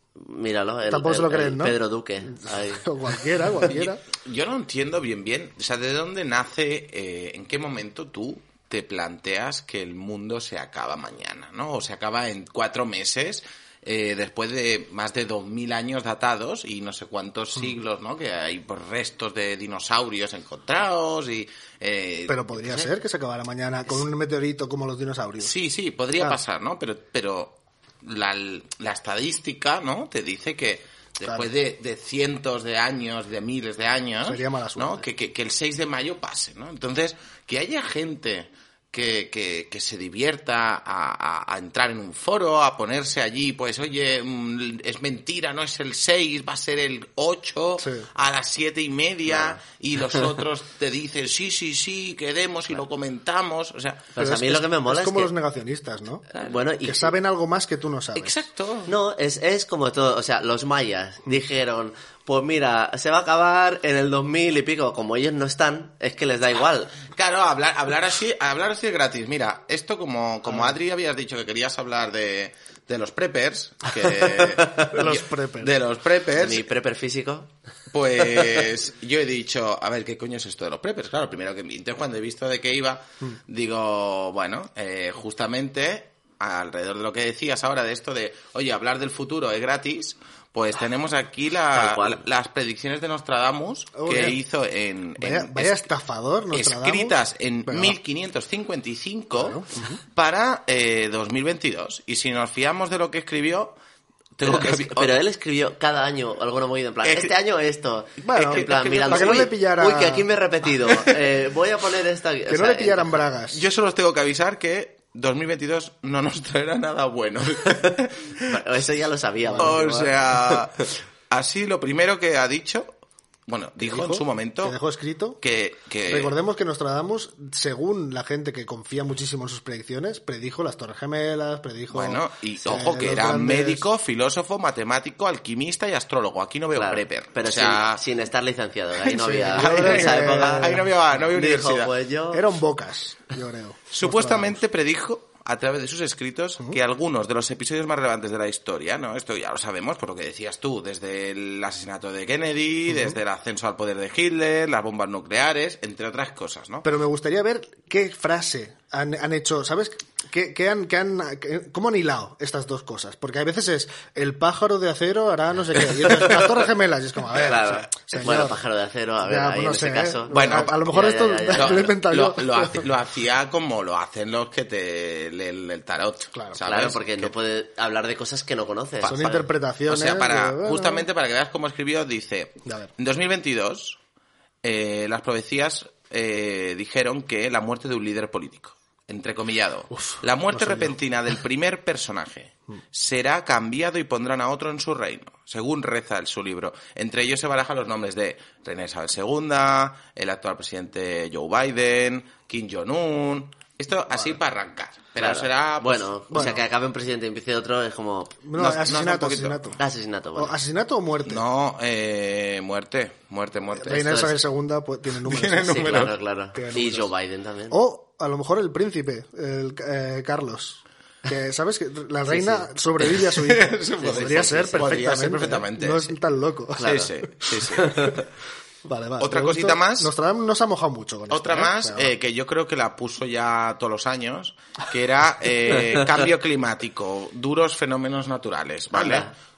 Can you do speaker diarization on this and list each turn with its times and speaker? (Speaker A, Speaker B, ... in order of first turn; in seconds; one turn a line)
Speaker A: 0.1-2.9
Speaker B: 0.9-4.0
Speaker C: 3.6-22.9
Speaker B: 22.3-25.5
Speaker C: 25.4-54.1
Speaker B: 34.2-35.0
Speaker B: 47.8-48.0
Speaker A: 49.3-49.6
Speaker A: 54.1-55.3
Speaker B: 54.2-56.2
Speaker C: 56.3-56.6
Speaker A: 56.4-57.1
Speaker B: 56.8-58.4
Speaker C: 58.1-58.9
Speaker A: 58.9-67.0
Speaker C: 67.1-76.7
Speaker A: 74.6-74.9
Speaker B: 74.9-75.7
Speaker A: 76.3-77.5
Speaker C: 77.9-95.8
Speaker A: 91.7-92.2
Speaker B: 94.0-94.4
Speaker B: 95.2-97.2
Speaker C: 96.5-103.8
Speaker B: 97.7-98.0
Speaker B: 99.4-100.0
Speaker C: 104.4-105.1
Speaker A: 104.4-113.2
Speaker C: 107.0-107.3
Speaker C: 108.2-109.5
Speaker B: 108.2-110.2
Speaker B: 112.5-113.6
Speaker C: 113.5-118.6
Speaker A: 118.5-120.6
Speaker B: 119.4-119.8
Speaker C: 119.6-122.9
Speaker C: 123.5-124.8
Speaker B: 123.8-125.4
Speaker C: 125.4-126.3
Speaker B: 126.1-133.8
Speaker C: 131.9-138.0
Speaker A: 136.7-142.4
Speaker C: 139.1-141.9
Speaker B: 139.4-140.9
Speaker B: 142.3-144.6
Speaker C: 143.9-156.8
Speaker B: 152.9-153.2
Speaker B: 156.8-168.6
Speaker A: 165.9-166.5
Speaker A: 167.3-171.9
Speaker B: 169.2-172.9
Speaker C: 170.3-170.8
Speaker C: 171.5-177.3
Speaker A: 176.6-179.4
Speaker C: 179.0-184.0
Speaker B: 179.0-181.1
Speaker C: 184.6-206.6
Speaker B: 189.9-190.9
Speaker A: 205.2-208.4
Speaker B: 206.3-206.6
Speaker B: 208.4-209.8
Speaker C: 208.6-209.8
Speaker A: 209.8-210.5
Speaker B: 210.3-211.4
Speaker C: 211.2-214.2
Speaker B: 213.7-217.1
Speaker A: 213.9-214.3
Speaker C: 215.2-216.1
Speaker A: 215.6-217.8
Speaker B: 217.7-228.2
Speaker A: 222.3-222.7
Speaker C: 223.1-226.1
Speaker A: 224.0-225.0
Speaker C: 226.8-228.2
Speaker A: 226.8-227.1
Speaker B: 228.8-232.1
Speaker C: 229.2-230.1
Speaker C: 231.3-239.3
Speaker A: 238.9-239.3